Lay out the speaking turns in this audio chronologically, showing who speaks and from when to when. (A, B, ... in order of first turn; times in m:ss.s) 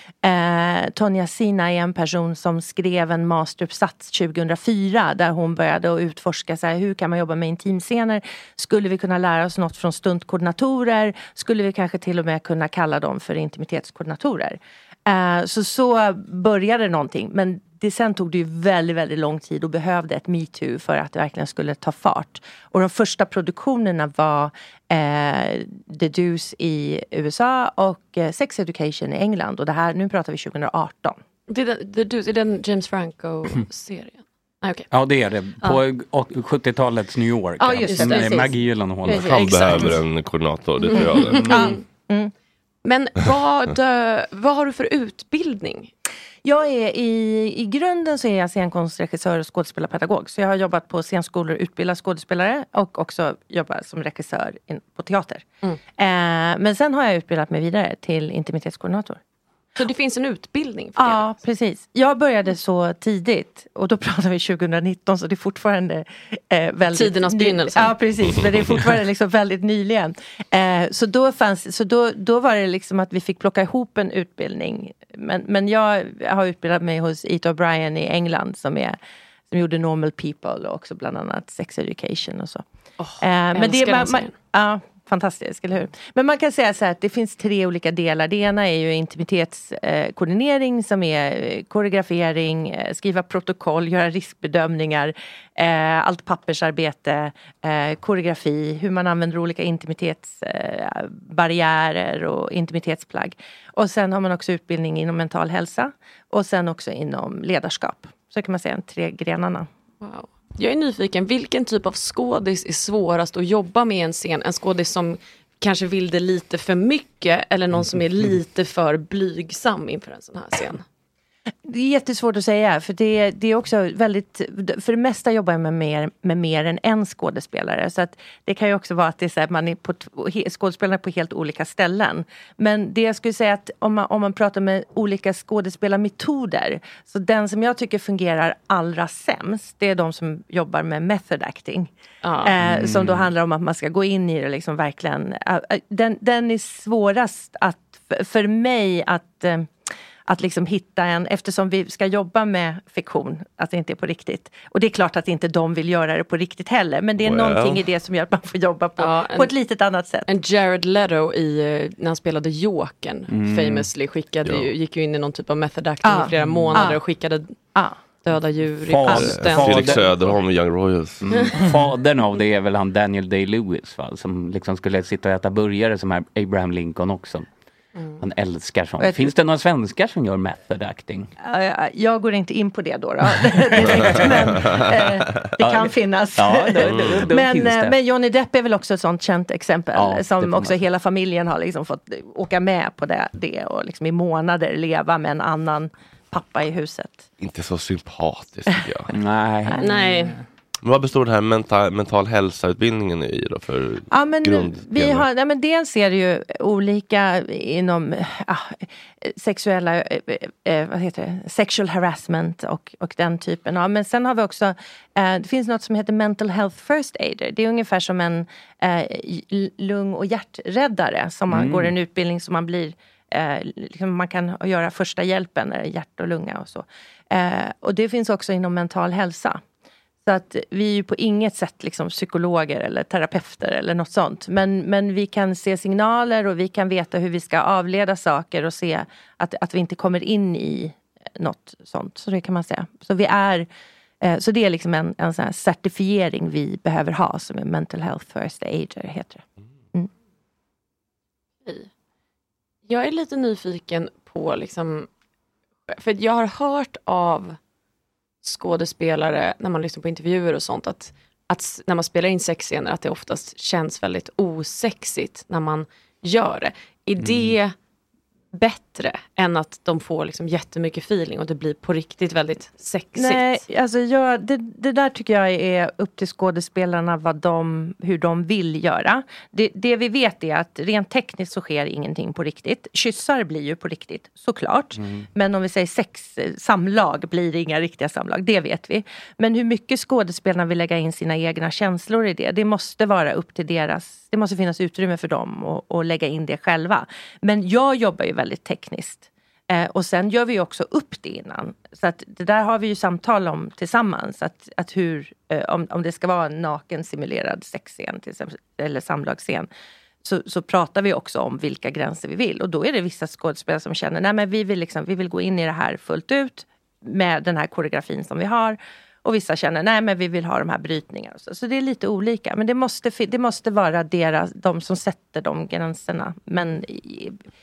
0:00.2-0:31.2 A
0:31.5-0:34.9 B
0:34.9-0:39.8 C
0:37.6-0:38.5 A
0:37.9-0:38.4 B
0:39.0-0:40.0 A
0:39.2-0:41.5 D
0:40.9-0:41.8 B
0:41.3-0:41.8 C
0:41.5-0:42.3 A
0:42.8-0:45.9 B
0:46.4-0:55.5 A
0:56.0-0:59.2 A
0:59.8-1:01.2 B
1:01.0-1:19.0 A
1:06.9-1:08.0 B
1:19.5-1:22.6 A
1:23.0-1:24.3 B
1:23.2-1:49.7 A
1:50.0-2:00.8 B
2:01.7-2:21.9 A
2:22.2-2:22.6 B
2:22.4-2:29.7 A
2:22.6-2:23.3 C
2:30.3-2:40.3 A
2:37.2-2:37.8 D
2:39.0-2:39.5 B
2:40.3-2:47.6 B
2:43.3-2:43.9 C
2:46.0-2:47.0 A
2:46.6-2:46.9 C
2:48.2-2:49.7 B
2:48.8-2:50.1 C
2:49.1-2:51.6 D
2:51.2-2:57.5 C
2:58.0-2:58.2 B
2:58.2-3:01.3 C
2:59.0-2:59.3 A
3:01.4-3:17.3 A
3:03.4-3:04.6 C
3:05.6-3:08.0 C
3:06.8-3:07.3 D
3:09.9-3:10.8 C
3:17.4-3:19.1 D
3:19.1-3:19.8 C
3:19.8-3:20.4 B
3:20.8-3:25.3 D
3:24.1-3:49.6 A
3:41.5-3:41.9 C
3:50.3-4:03.7 A
4:04.2-4:09.4 A
4:12.9-4:15.1 B
4:15.9-4:17.6 B
4:18.4-4:27.7 B
4:27.2-4:27.6 C
4:28.5-4:33.6 B
4:33.2-5:09.7 A
4:45.0-4:45.3 C
5:10.2-5:27.4 A